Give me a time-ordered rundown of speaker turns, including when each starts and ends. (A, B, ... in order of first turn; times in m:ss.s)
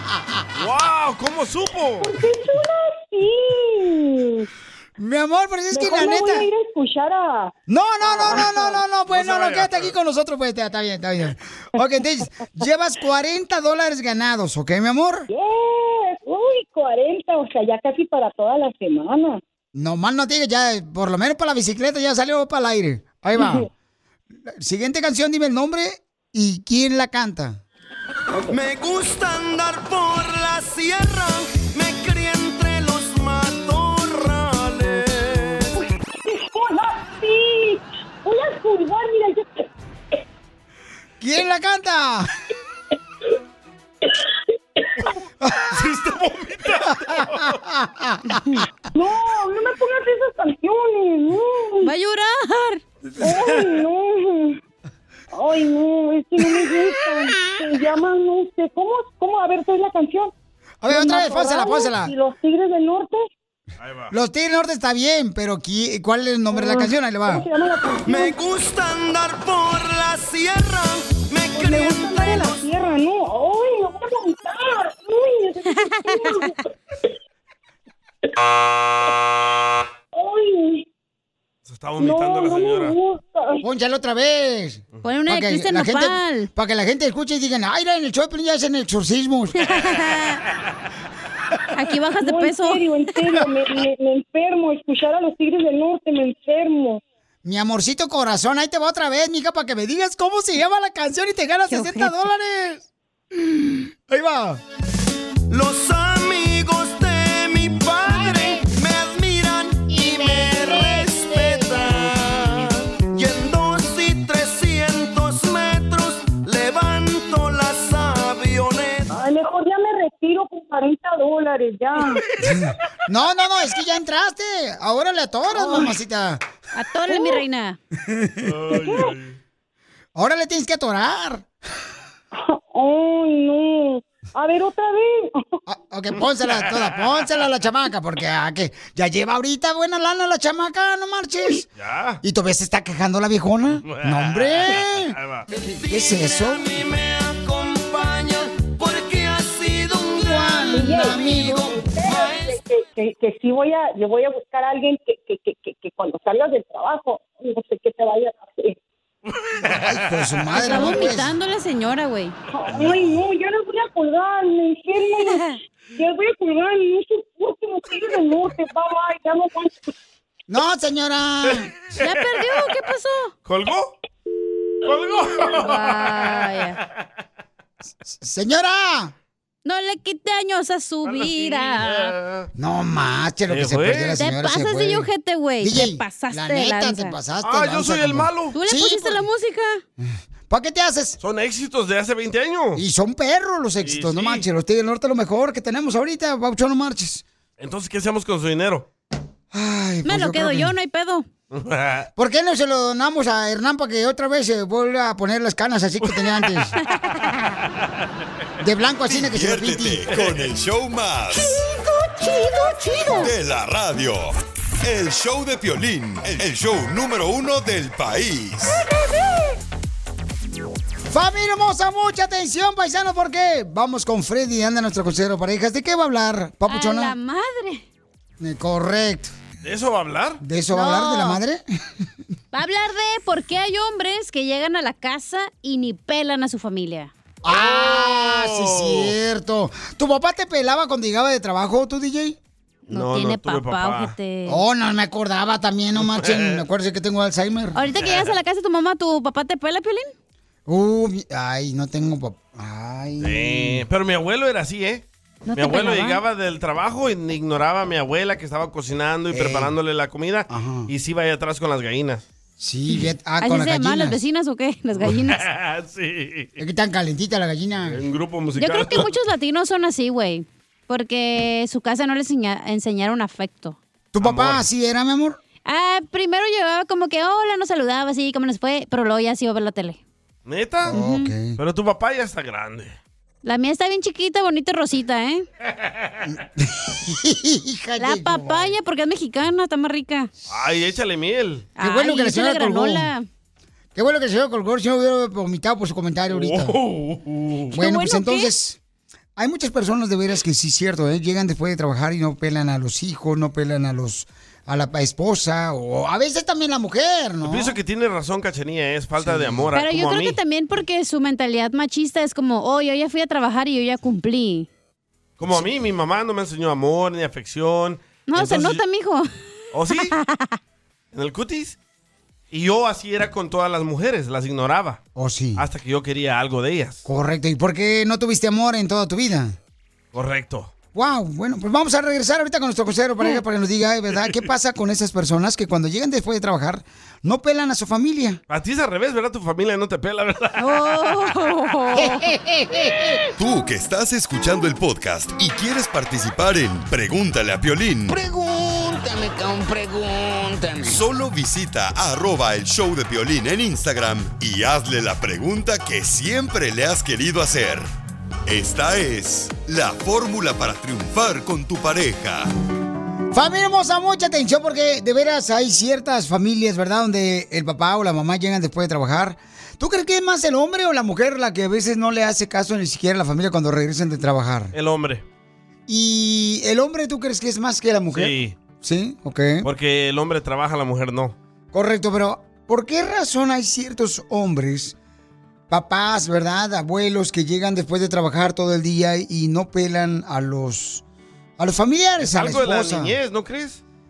0:00.6-0:02.1 A
0:02.0-0:04.5 B
0:05.0-0:06.5 C
0:05.7-0:07.5 B
0:07.7-0:15.3 C
0:08.0-0:08.8 B
0:09.1-0:09.9 A
0:15.3-0:19.4 B
0:19.7-0:23.7 C
0:23.3-0:23.7 B
0:24.4-0:27.6 C
0:28.5-0:35.0 D
0:35.7-0:39.6 B
0:41.2-0:42.3 C
0:45.4-0:45.8 C
0:45.7-0:47.6 A
0:47.1-0:48.4 C
0:48.9-0:51.9 B
0:51.8-0:52.8 E
0:53.2-0:54.6 B
0:55.3-1:00.3 B
0:57.1-0:57.5 C
1:00.8-1:02.1 C
1:00.9-1:03.3 B
1:03.8-1:04.1 A
1:04.1-1:07.4 C
1:06.5-1:08.4 B
1:08.1-1:12.3 D
1:11.5-1:16.6 B
1:20.1-1:20.8 B
1:21.6-1:23.0 A
1:22.0-1:23.6 B
1:23.6-1:29.6 C
1:25.0-1:26.5 E
1:29.6-1:30.4 E
1:31.7-1:32.9 E
1:32.2-1:37.0 B
1:37.4-1:44.6 C
1:41.7-1:42.1 E
1:45.5-1:52.0 D
1:49.9-1:51.5 C
1:53.1-1:59.0 D
1:59.1-2:02.2 B
2:02.4-2:06.4 C
2:05.5-2:05.9 B
2:06.7-2:07.8 E
2:07.1-2:07.4 B
2:08.0-2:08.4 C
2:08.4-2:09.4 A
2:08.7-2:09.1 B
2:10.2-2:11.4 C
2:12.3-2:15.6 B
2:15.7-2:21.6 C
2:16.4-2:17.4 A
2:21.7-2:22.2 A
2:22.2-2:26.8 C
2:23.8-2:25.4 A
2:26.4-2:30.2 D
2:30.2-2:31.8 C
2:30.6-2:38.8 B
2:39.3-2:40.5 A
2:39.8-2:41.3 C
2:40.6-2:42.3 E
2:40.7-2:41.0 B
2:42.5-2:49.8 B
2:50.5-2:51.7 C
2:51.4-2:52.2 A
2:52.0-2:53.3 E
2:53.4-2:53.9 A
2:54.8-2:56.6 A
2:55.5-2:56.8 E
2:58.0-2:59.1 C
2:59.6-3:02.1 E
3:01.0-3:02.5 A
3:02.5-3:05.1 C
3:03.5-3:04.2 A
3:04.2-3:07.1 E
3:05.6-3:09.2 C
3:07.4-3:08.6 A
3:08.5-3:09.8 E
3:10.0-3:11.2 C
3:11.2-3:12.8 A
3:12.7-3:17.2 C
3:13.8-3:14.4 A
3:17.6-3:18.8 A
3:19.5-3:20.7 C
3:20.0-3:21.2 E
3:21.5-3:22.1 A
3:22.2-3:26.7 C
3:28.6-3:30.1 C
3:29.2-3:31.6 F
3:33.1-3:38.8 F
3:41.1-3:47.1 C
3:46.7-3:47.8 E
3:48.4-3:49.3 C
3:49.6-3:50.4 A
3:50.4-3:51.6 C
3:50.7-3:51.4 E
3:52.5-3:57.1 E
3:57.4-4:02.4 C
3:57.5-3:59.1 A
4:02.9-4:04.6 E
4:02.9-4:04.1 A
4:04.5-4:07.8 C
4:06.0-4:06.6 A
4:07.7-4:10.1 E
4:07.9-4:08.3 A
4:10.7-4:13.8 C
4:13.2-4:22.2 A
4:15.5-4:16.2 E
4:19.3-4:19.7 C
4:20.5-4:20.9 C
4:22.6-4:24.2 C
4:23.4-4:25.4 E
4:25.0-4:26.5 A
4:26.6-4:28.0 C
4:27.8-4:29.1 A
4:28.6-4:33.8 E
4:34.1-4:35.4 C
4:34.2-4:34.6 A
4:35.6-4:40.0 E
4:40.4-4:40.9 A
4:40.8-4:41.6 C
4:40.9-4:41.3 E
4:41.6-4:43.0 A
4:43.4-4:45.4 E
4:46.2-4:48.7 C
4:48.0-4:50.3 E
4:50.5-4:51.7 A
4:51.8-4:53.2 E
4:51.8-4:53.1 C
4:53.9-4:56.8 C
4:56.3-4:57.7 A
4:57.7-4:58.8 C
4:57.8-4:58.5 E
4:59.4-5:07.8 C
5:07.4-5:10.4 A
5:09.2-5:09.7 C
5:09.7-5:14.7 E
5:15.4-5:18.8 A
5:18.3-5:19.3 E
5:19.7-5:20.2 A
5:20.1-5:20.6 E
5:21.1-5:21.8 A
5:22.5-5:25.0 A
5:25.1-5:25.6 C
5:25.6-5:27.0 A
5:27.0-5:29.6 C
5:30.1-5:30.7 A
5:30.9-5:38.4 C
5:38.5-5:41.3 A
5:40.6-5:42.3 E
5:42.0-5:42.9 C
5:43.4-5:48.2 F
5:50.8-5:57.9 F
5:58.5-6:02.5 F
6:03.3-6:14.7 C
6:14.7-6:15.2 A
6:15.9-6:19.7 C
6:18.1-6:18.6 A
6:19.6-6:21.3 A
6:21.7-6:24.9 C
6:25.7-6:31.0 C
6:31.6-6:33.2 C
6:32.2-6:33.8 A